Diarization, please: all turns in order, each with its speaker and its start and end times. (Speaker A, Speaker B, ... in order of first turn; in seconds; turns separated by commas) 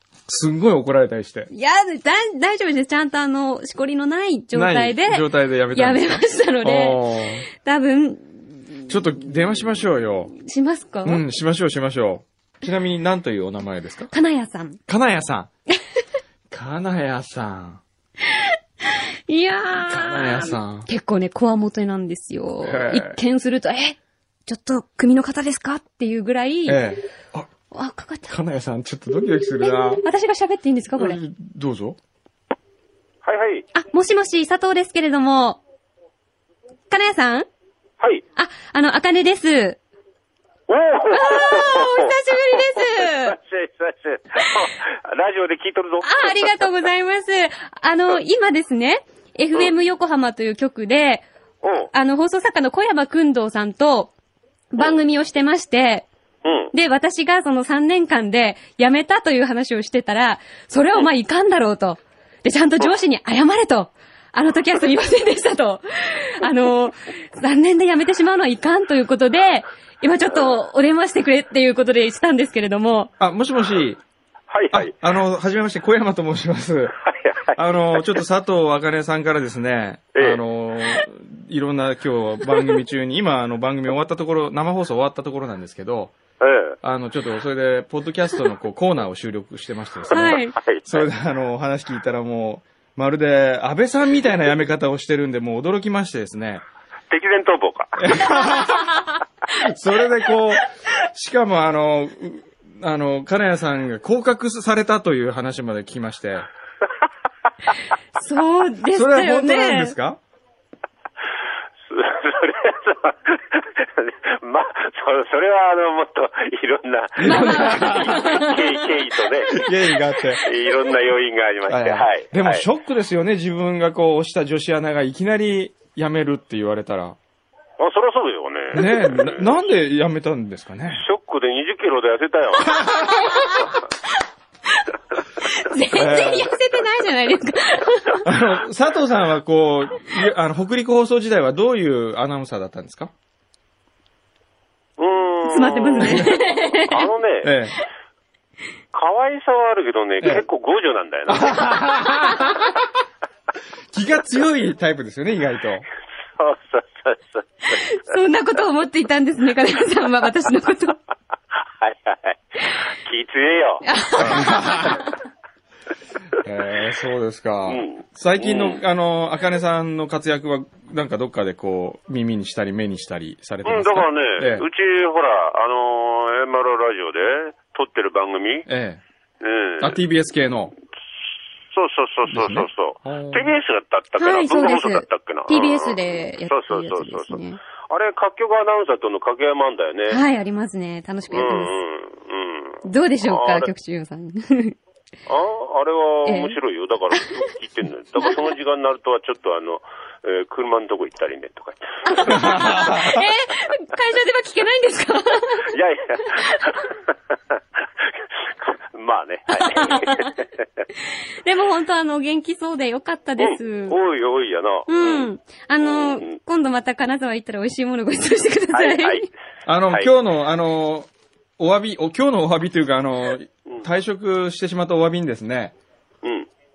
Speaker A: 0.3-1.5, Speaker B: 1.5-7.0, Speaker A: 4.5-7.5, Speaker B: 7.5-8.9, Speaker A: 8.9-10.3, Speaker B: 10.4-11.2, Speaker A: 11.0-14.1, Speaker B: 14.1-14.8, Speaker A: 14.9-15.5, Speaker A: 16.5-17.8, Speaker B: 19.3-26.8, Speaker A: 19.9-20.9, Speaker A: 22.6-23.2, Speaker A: 26.6-27.5, Speaker B: 27.7-28.4, Speaker A: 28.3-30.0, Speaker B: 29.6-31.2, Speaker A: 30.9-32.0, Speaker C: 33.2-33.6, Speaker B: 33.7-35.6, Speaker B: 36.9-37.5, Speaker B: 38.4-39.8, Speaker C: 40.7-46.7, Speaker B: 41.1-43.4, Speaker B: 46.0-51.2, Speaker C: 51.6-51.9, Speaker B: 51.9-54.1, Speaker B: 54.7-56.0, Speaker C: 56.4-56.7, Speaker B: 56.7-73.1, Speaker A: 73.2-74.0, Speaker C: 74.5-74.9, Speaker A: 74.7-77.0, Speaker C: 77.0-78.2, Speaker A: 77.5-86.1, Speaker C: 80.1-80.4, Speaker C: 86.4-86.8, Speaker A: 86.8-96.6, Speaker B: 90.1-90.6, Speaker C: 90.3-91.0, Speaker C: 97.1-98.2, Speaker A: 98.0-99.0, Speaker B: 98.2-99.1, Speaker A: 99.6-106.5, Speaker B: 108.2-109.9, Speaker A: 108.9-110.2, Speaker C: 111.9-119.7, Speaker A: 117.2-118.3, Speaker B: 117.2-118.8, Speaker A: 119.6-120.4, Speaker C: 120.4-122.6, Speaker A: 121.7-127.2, Speaker C: 127.8-129.5, Speaker A: 128.7-131.0, Speaker C: 130.9-132.7, Speaker A: 132.7-133.2, Speaker B: 132.7-133.8, Speaker B: 135.4-138.2, Speaker A: 135.9-136.5, Speaker A: 138.2-143.1, Speaker C: 145.0-147.5, Speaker B: 145.4-147.0, Speaker A: 146.0-146.4, Speaker A: 147.4-147.7, Speaker C: 148.9-151.7, Speaker A: 151.3-152.9, Speaker A: 153.9-155.8, Speaker C: 156.4-157.8, Speaker B: 157.7-161.0, Speaker C: 161.8-164.4, Speaker B: 163.8-164.9, Speaker A: 164.2-165.0, Speaker A: 166.4-174.7, Speaker C: 167.7-168.8, Speaker C: 173.6-178.7, Speaker A: 178.7-179.0, Speaker C: 179.4-180.0, Speaker A: 179.8-180.7, Speaker C: 181.7-185.9, Speaker A: 182.3-183.5, Speaker B: 184.2-187.6, Speaker C: 186.5-190.2, Speaker B: 190.1-191.7, Speaker C: 191.3-193.7, Speaker B: 192.8-194.8, Speaker C: 195.3-202.5, Speaker B: 196.2-196.6, Speaker B: 202.0-205.7, Speaker A: 202.3-203.2, Speaker C: 205.7-207.0, Speaker B: 206.2-206.7, Speaker C: 208.6-210.4, Speaker B: 209.5-210.4, Speaker B: 211.4-213.9, Speaker C: 213.4-215.3, Speaker B: 214.9-219.3, Speaker C: 215.8-216.4, Speaker C: 218.7-219.2, Speaker A: 219.7-225.7, Speaker C: 226.2-226.5